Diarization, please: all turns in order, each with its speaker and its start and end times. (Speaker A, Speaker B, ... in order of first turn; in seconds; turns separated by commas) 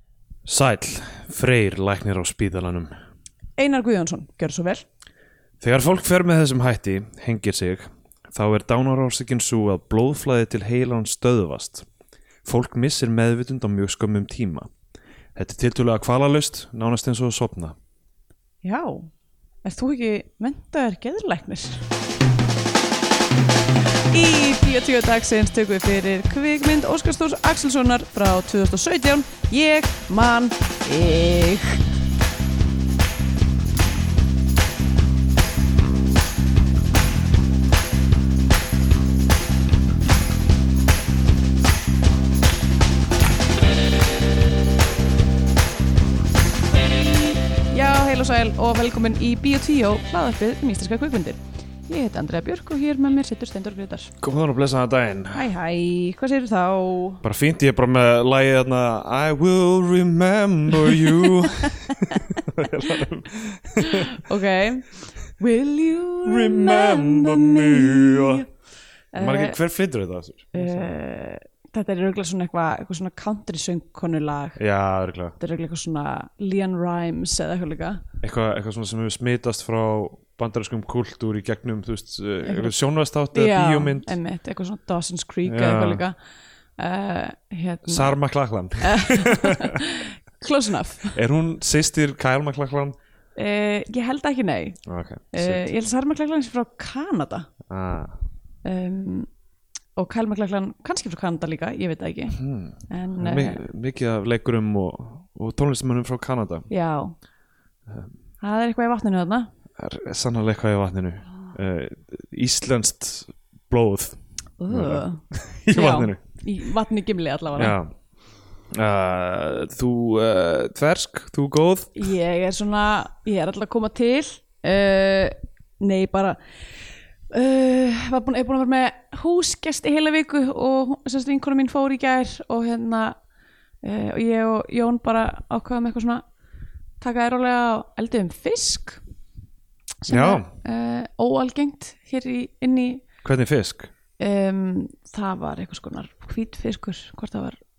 Speaker A: 0.5-2.9, Speaker B: 3.6-4.8, Speaker A: 5.6-11.8, Speaker A: 12.4-14.7, Speaker A: 15.3-17.7, Speaker B: 18.6-19.1, Speaker B: 19.6-21.8, Speaker B: 24.1-31.8, Speaker B: 46.9-54.1, Speaker A: 54.2-55.5, Speaker B: 55.3-57.2, Speaker A: 57.2-64.1, Speaker B: 60.9-62.4, Speaker B: 63.8-68.5, Speaker A: 66.2-68.4, Speaker B: 69.1-69.6, Speaker A: 69.2-70.9, Speaker B: 70.5-74.6, Speaker A: 74.6-75.3, Speaker B: 75.4-78.0, Speaker A: 78.2-84.2, Speaker B: 82.4-82.8, Speaker B: 83.3-86.2, Speaker A: 85.5-86.0, Speaker B: 86.8-88.1, Speaker A: 87.9-89.8, Speaker B: 88.8-91.2, Speaker A: 91.1-93.0, Speaker B: 93.3-94.8, Speaker A: 94.8-95.7, Speaker B: 95.3-97.5, Speaker A: 97.7-98.1, Speaker B: 98.6-99.3, Speaker B: 100.0-103.6, Speaker A: 102.3-106.7, Speaker B: 106.7-107.1, Speaker B: 108.4-109.5, Speaker A: 109.8-114.2, Speaker B: 114.6-117.8, Speaker A: 114.7-116.2, Speaker A: 117.5-117.9, Speaker A: 118.7-122.1, Speaker B: 122.0-126.4, Speaker B: 127.3-133.2, Speaker B: 133.8-136.2, Speaker B: 137.0-139.0, Speaker B: 140.0-143.0, Speaker A: 140.1-140.5, Speaker A: 143.2-143.9, Speaker B: 144.2-147.6